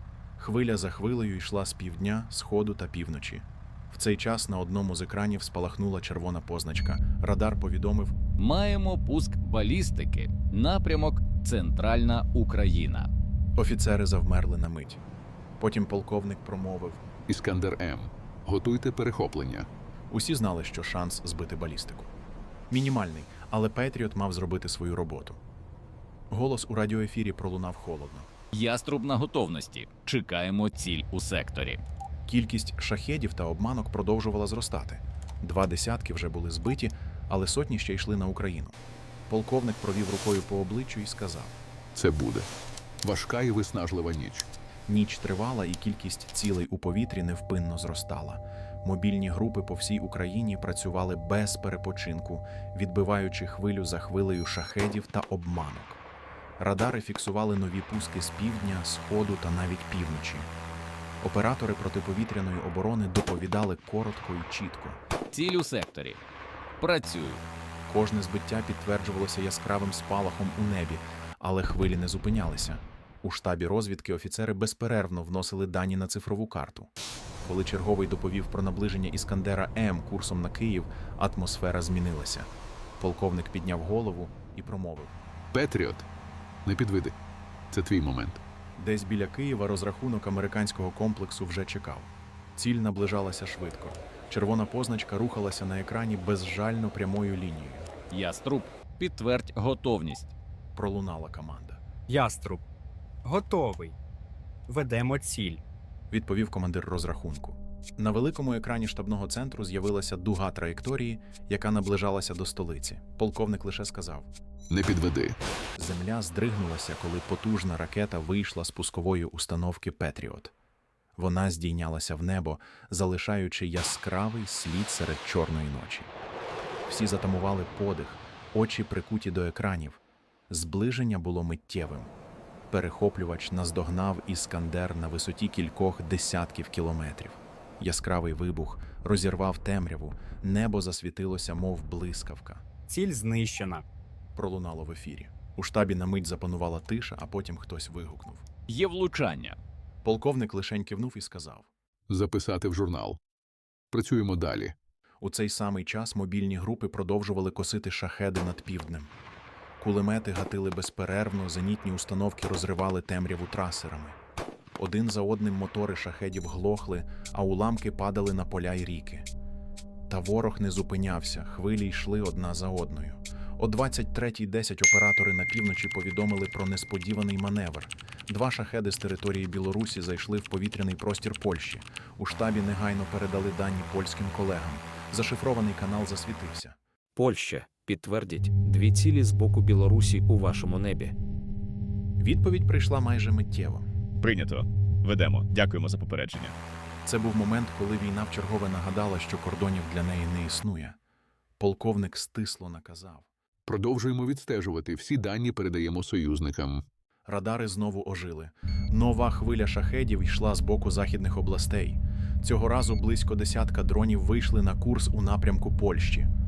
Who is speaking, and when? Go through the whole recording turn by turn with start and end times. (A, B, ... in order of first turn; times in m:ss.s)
0:00.4-0:08.2 A
0:08.4-0:13.1 B
0:13.6-0:15.0 A
0:15.6-0:17.1 A
0:17.3-0:19.7 C
0:20.1-0:22.1 A
0:22.7-0:25.4 A
0:26.3-0:28.3 A
0:28.5-0:31.8 B
0:32.3-0:38.8 A
0:39.3-0:41.6 A
0:42.0-0:42.5 C
0:43.0-0:44.5 C
0:44.9-0:56.0 A
0:56.6-1:00.5 A
1:01.2-1:05.0 A
1:05.3-1:06.2 B
1:06.8-1:07.4 B
1:07.9-1:16.9 A
1:17.4-1:25.2 A
1:25.5-1:26.1 C
1:26.7-1:27.2 C
1:27.7-1:28.4 C
1:28.8-1:37.9 A
1:38.1-1:40.3 B
1:40.8-1:41.8 A
1:42.1-1:42.6 D
1:43.2-1:44.0 D
1:44.7-1:45.6 D
1:46.1-1:54.3 A
1:54.7-1:55.4 C
1:55.8-2:00.5 A
2:01.2-2:06.1 A
2:06.9-2:12.1 A
2:12.7-2:22.6 A
2:22.9-2:23.9 D
2:24.4-2:28.4 A
2:28.7-2:29.6 B
2:30.0-2:31.7 A
2:32.1-2:33.2 C
2:33.9-2:34.8 C
2:35.2-2:39.1 A
2:39.8-2:44.2 A
2:44.8-2:49.3 A
2:50.1-3:06.8 A
3:07.2-3:11.2 E
3:12.2-3:13.9 A
3:14.2-3:16.6 F
3:17.0-3:21.0 A
3:21.6-3:23.3 A
3:23.7-3:26.9 C
3:27.3-3:36.3 A